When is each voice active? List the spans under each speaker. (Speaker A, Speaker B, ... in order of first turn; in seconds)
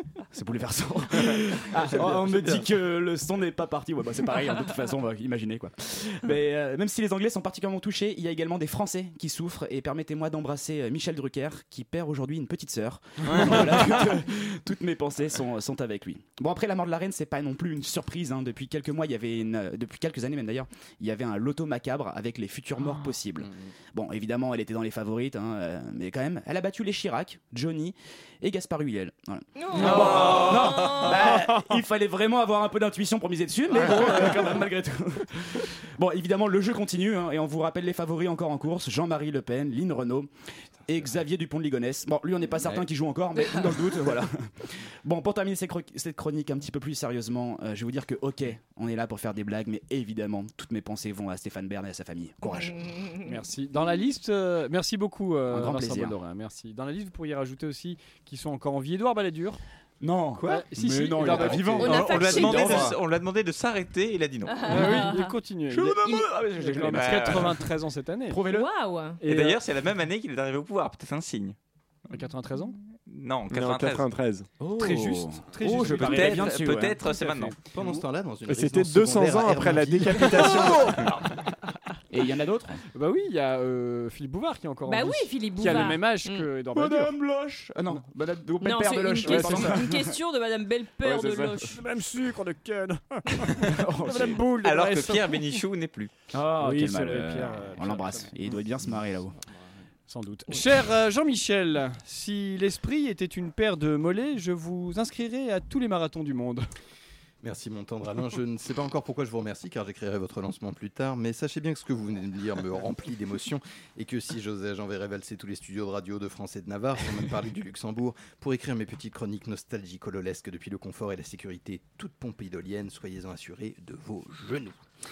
Speaker A: 0.3-40.3, 40.9-52.8, 55.5-56.1, 60.0-62.9, 65.7-67.6, 68.3-68.7, 74.6-77.1, 80.7-81.1, 82.1-82.8, 86.7-90.2, 91.0-91.6, 93.6-94.4, 96.3-99.4
Speaker B: 1.8-2.7, 61.2-61.8, 77.7-81.2, 107.4-124.8
Speaker C: 29.6-31.5, 61.7-63.0, 64.5-65.3, 66.0-66.3, 68.4-69.2, 84.9-86.5, 88.6-91.8
Speaker D: 53.2-59.6, 60.4-62.1, 64.7-68.4, 69.2-69.6, 72.1-72.8, 74.8-77.6, 82.9-87.2, 89.2-89.9, 91.6-95.6, 96.6-98.3, 100.1-106.7
Speaker E: 61.8-65.0, 66.9-67.5, 69.2-71.6, 73.1-74.1, 75.9-77.6, 94.6-96.1
Speaker F: 73.5-74.5, 78.5-81.1